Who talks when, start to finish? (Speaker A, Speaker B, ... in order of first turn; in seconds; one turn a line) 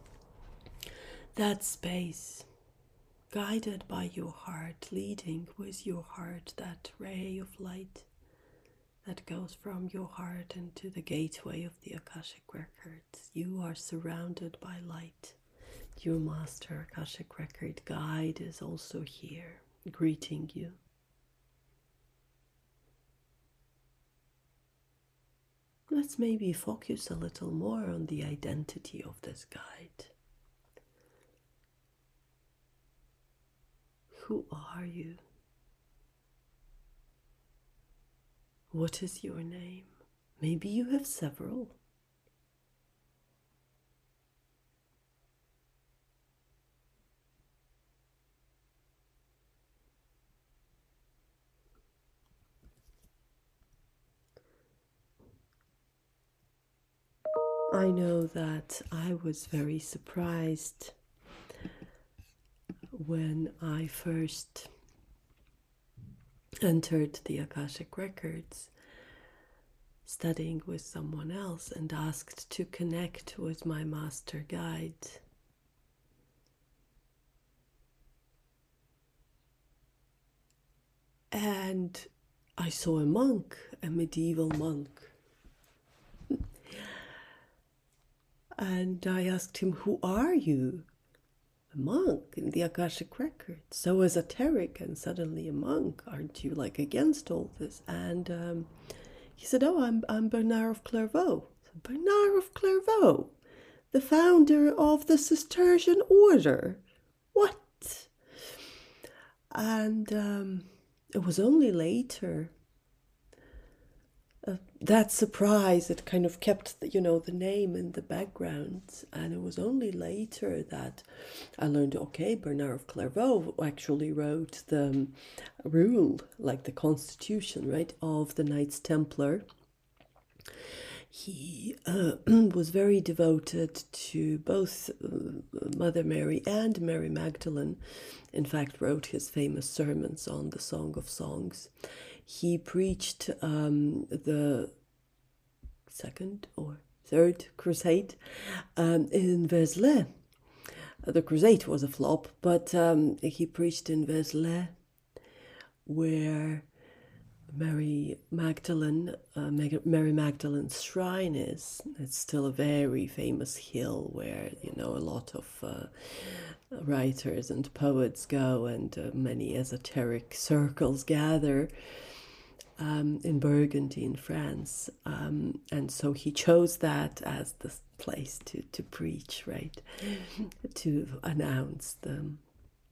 Speaker A: 1.4-2.5
Speaker A: 3.3-8.1
Speaker A: 9.0-15.4
Speaker A: 16.0-20.8
Speaker A: 25.9-30.1
Speaker A: 34.1-35.2
Speaker A: 38.7-41.8
Speaker A: 57.7-61.0
Speaker A: 62.9-64.7
Speaker A: 66.6-68.7
Speaker A: 70.0-75.2
Speaker A: 81.3-85.2
Speaker A: 86.7-87.0
Speaker A: 88.6-90.9
Speaker A: 91.7-98.7
Speaker A: 99.4-103.4
Speaker A: 103.9-106.8
Speaker A: 107.3-108.1
Speaker A: 109.5-112.5
Speaker A: 114.4-121.0
Speaker A: 121.6-129.4
Speaker A: 130.6-137.8
Speaker A: 138.3-141.7
Speaker A: 142.2-144.7
Speaker A: 145.9-150.1
Speaker A: 151.0-154.8
Speaker A: 155.9-156.7
Speaker A: 157.5-171.7
Speaker A: 172.8-182.4